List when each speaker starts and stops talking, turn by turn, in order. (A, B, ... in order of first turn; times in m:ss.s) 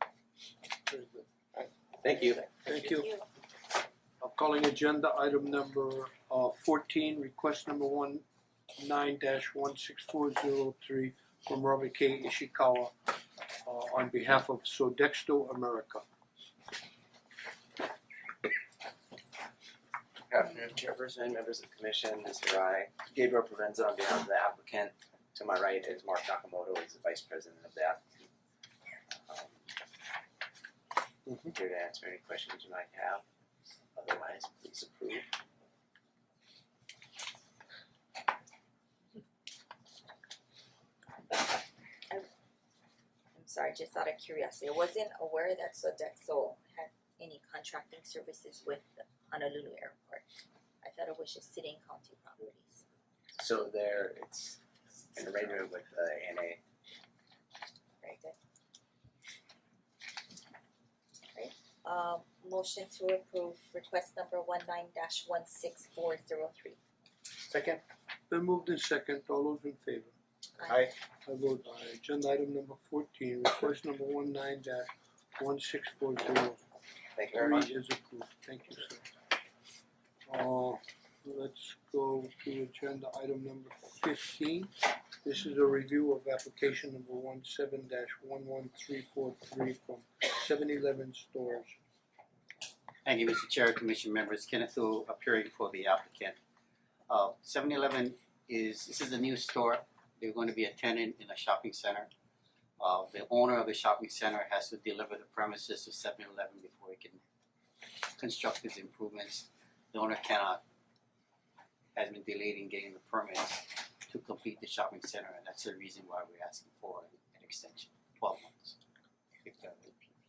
0:02.0-0:02.4 A
0:02.6-0:03.1 B
0:02.7-0:03.2 C
0:04.2-0:08.2 B
0:08.8-0:12.9 B
0:13.6-0:16.0 B
0:20.3-0:28.2 A
0:29.3-0:29.6 A
0:31.3-0:31.5 B
0:31.6-0:33.2 A
0:34.0-0:35.3 A
0:43.4-0:50.2 C
0:50.8-0:52.8 C
0:53.4-0:54.6 A
0:55.2-0:56.6 A
0:58.0-0:58.4 C
1:01.3-1:06.8 C
1:08.3-1:10.2 B
1:11.2-1:16.6 B
1:17.2-1:17.5 A
1:17.3-1:19.1 B
1:20.3-1:24.7 B
1:25.2-1:31.8 B
1:33.0-1:36.4 D
1:37.1-1:42.1 D
1:42.8-1:47.2 D
1:48.2-1:50.6 D
1:52.0-1:58.8 D
1:59.4-1:59.9 D